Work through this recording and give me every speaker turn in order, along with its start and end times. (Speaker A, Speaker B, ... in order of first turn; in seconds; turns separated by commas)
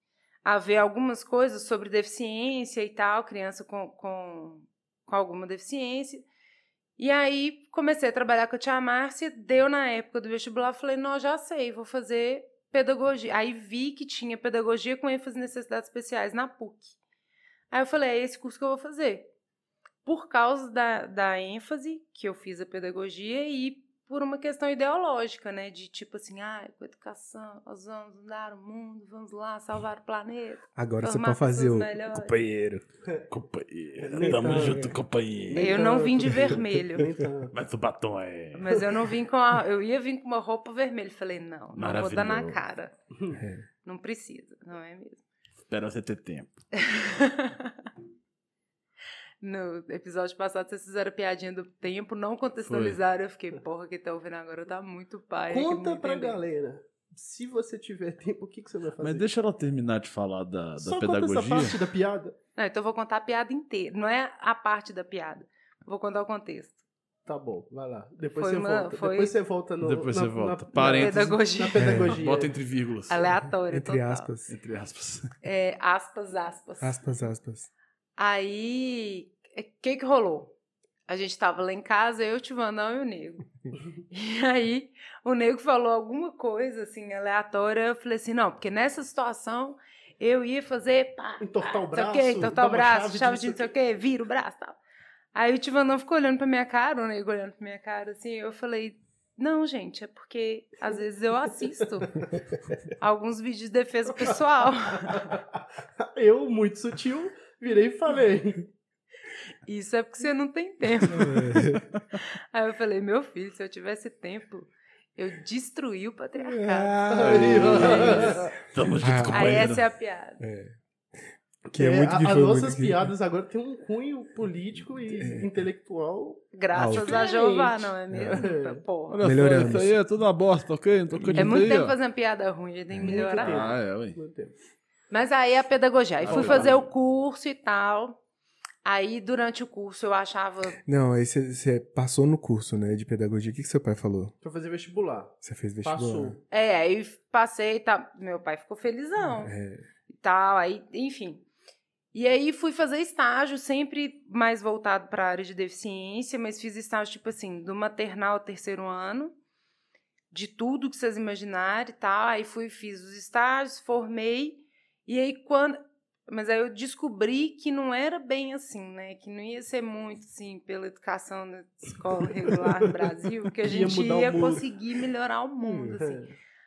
Speaker A: 0.5-6.2, Speaker A: 7.0-17.0, Speaker A: 17.7-19.3, Speaker A: 20.1-32.4, Speaker B: 30.8-32.8, Speaker C: 33.3-35.8, Speaker D: 34.0-34.9, Speaker B: 34.2-34.9, Speaker D: 35.5-37.5, Speaker A: 35.6-37.1, Speaker C: 37.5-38.7, Speaker A: 38.5-42.9, Speaker C: 41.8-42.6, Speaker B: 43.3-43.6, Speaker A: 43.8-45.2, Speaker C: 45.7-46.6, Speaker A: 46.8-47.8, Speaker A: 49.4-56.4, Speaker C: 52.6-53.0, Speaker D: 55.5-59.3, Speaker C: 59.0-61.8, Speaker D: 60.8-62.4, Speaker A: 62.6-66.8, Speaker D: 67.3-72.5, Speaker A: 68.4-69.4, Speaker C: 69.8-71.4, Speaker A: 70.9-72.1, Speaker B: 71.8-72.2, Speaker C: 72.1-73.3, Speaker A: 73.1-74.3, Speaker B: 73.7-74.5, Speaker C: 74.5-75.3, Speaker A: 75.4-77.0, Speaker B: 76.8-77.7, Speaker A: 78.2-80.5, Speaker A: 81.1-83.5, Speaker A: 84.1-94.8, Speaker D: 91.4-93.7, Speaker A: 95.3-102.1, Speaker D: 101.5-102.2, Speaker A: 103.0-105.3, Speaker D: 105.0-108.7, Speaker A: 109.7-111.6, Speaker B: 111.1-111.9, Speaker A: 112.5-117.0, Speaker B: 116.4-119.8, Speaker D: 117.1-118.5, Speaker C: 117.3-119.8, Speaker A: 117.7-118.3, Speaker A: 119.3-120.4, Speaker B: 120.4-120.8, Speaker B: 121.7-123.1, Speaker D: 121.7-128.8, Speaker B: 125.1-125.6, Speaker A: 126.5-129.2, Speaker B: 126.7-127.2, Speaker B: 128.1-128.4, Speaker C: 129.1-132.0, Speaker B: 129.2-130.0, Speaker B: 131.2-131.6, Speaker A: 131.4-133.7, Speaker D: 133.0-134.6, Speaker C: 133.3-134.2, Speaker A: 135.1-138.2, Speaker C: 136.2-136.8, Speaker D: 136.2-136.8, Speaker A: 138.8-140.8, Speaker B: 140.8-144.3, Speaker D: 144.4-146.4, Speaker B: 145.4-146.4, Speaker A: 146.5-149.5, Speaker B: 149.4-149.8, Speaker A: 150.1-151.4, Speaker A: 152.1-159.3, Speaker A: 160.3-176.2, Speaker D: 172.4-174.7, Speaker B: 175.6-175.9, Speaker D: 176.0-176.3